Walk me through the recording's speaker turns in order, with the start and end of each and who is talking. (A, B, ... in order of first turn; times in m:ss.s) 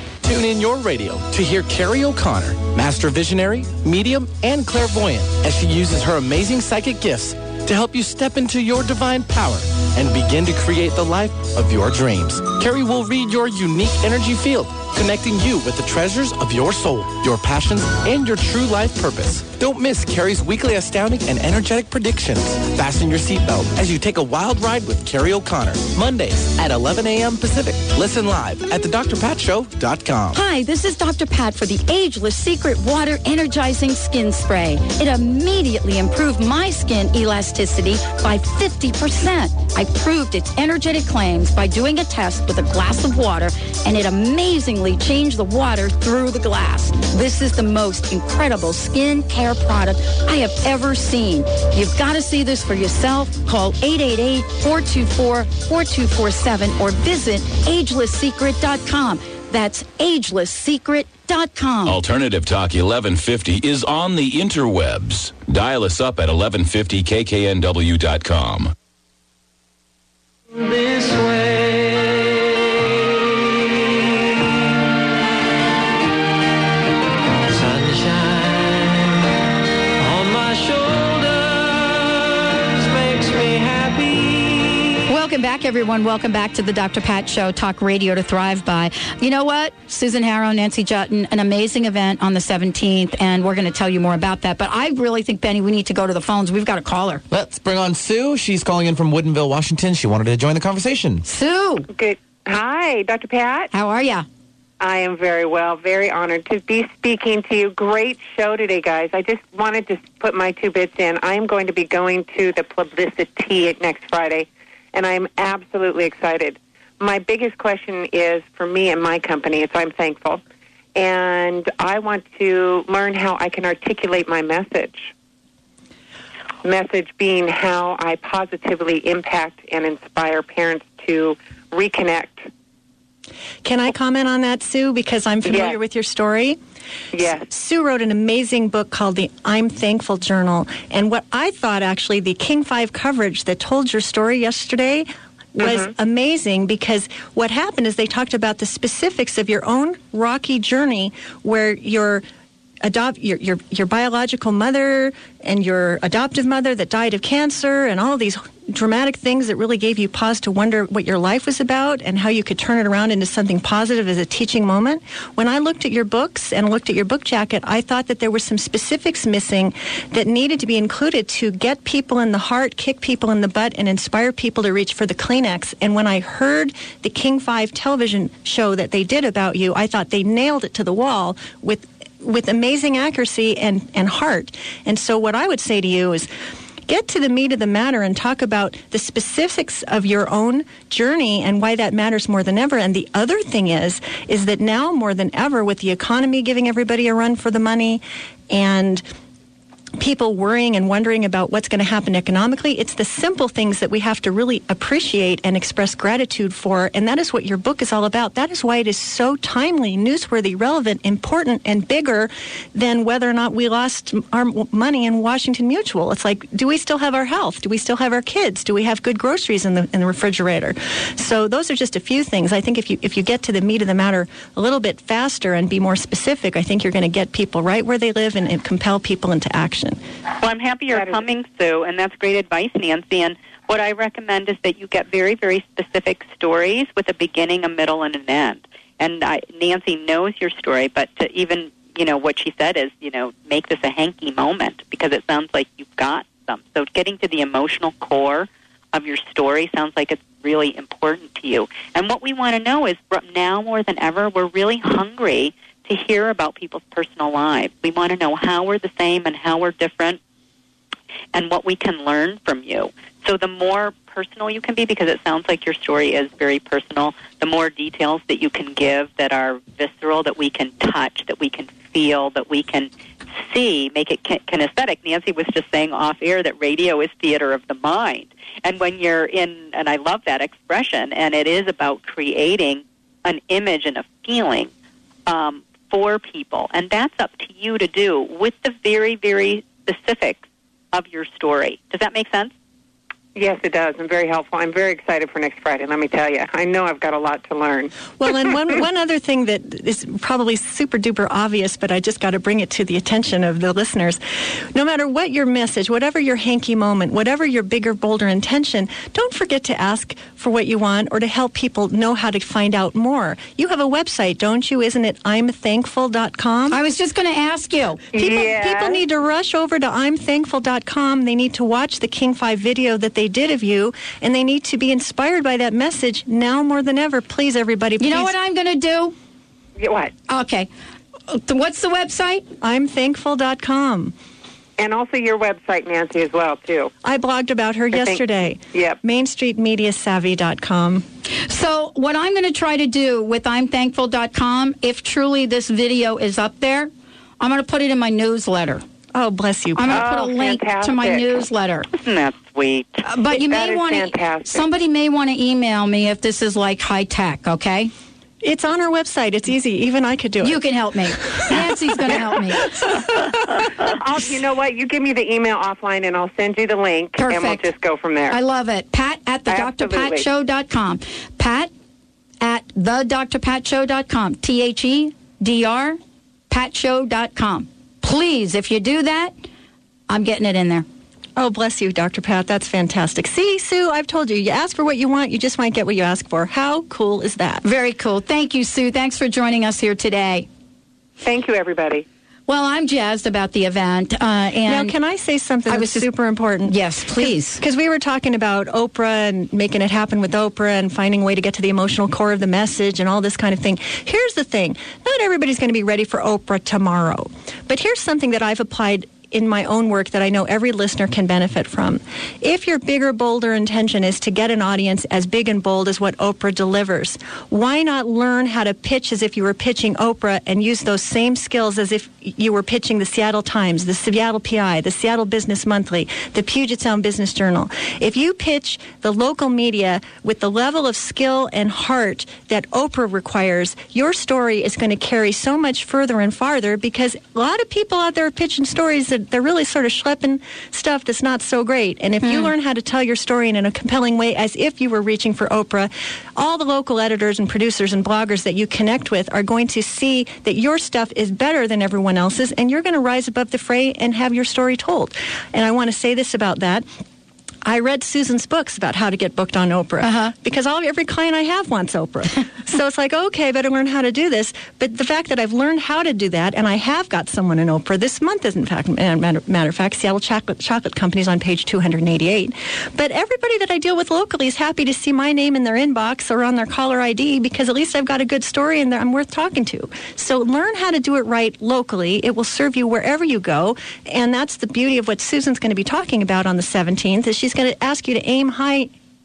0:00.2-0:30.4 A
0:30.3-1:02.0 B
1:01.8-1:08.7 C
1:25.1-1:37.2 B
1:37.3-1:41.2 A
1:41.2-1:41.9 B
1:41.9-1:43.7 D
1:43.7-1:44.2 B
1:44.8-2:00.4 D
2:00.9-2:05.1 D
2:06.6-2:12.5 D
2:13.6-2:16.6 E
2:15.4-2:15.8 D
2:17.1-2:17.5 D
2:17.2-2:32.2 E
2:25.6-2:25.9 D
2:32.8-3:06.3 E
3:06.9-3:19.0 E
3:20.0-3:50.0 E
3:50.4-4:20.2 F
3:50.9-3:51.2 D
4:21.3-4:44.7 F
4:45.3-4:52.5 F
4:53.3-4:58.1 D
4:58.2-5:16.8 E
5:16.7-5:18.4 B
5:18.1-5:28.3 E
5:18.2-5:19.0 D
5:28.0-5:29.1 B
5:29.8-5:30.1 D
5:30.3-5:30.7 B
5:31.3-5:32.4 B
5:32.6-5:34.1 E
5:34.8-5:36.9 D
5:37.0-5:41.0 E
5:37.9-5:38.2 D
5:38.7-5:39.0 D
5:41.5-5:48.8 B
5:49.1-5:50.1 E
5:49.8-5:51.9 B
5:49.9-5:51.4 D
5:51.9-5:53.0 F
5:53.0-5:57.9 B
5:53.3-5:54.7 D
5:58.4-6:00.6 E
6:00.4-6:02.7 B
6:02.0-6:03.0 E
6:03.9-6:08.4 D
6:07.2-6:07.7 B
6:08.3-6:11.7 B
6:09.5-6:10.2 D
6:12.4-6:16.0 B
6:16.5-6:19.3 B
6:20.1-6:20.8 B
6:21.4-6:27.6 E
6:27.6-6:30.5 B
6:31.2-6:32.0 D
6:32.5-6:34.9 B
6:34.7-7:36.8 E
6:35.7-6:36.1 B
6:36.6-6:37.6 B
7:37.6-8:08.9 E
7:40.0-7:40.3 B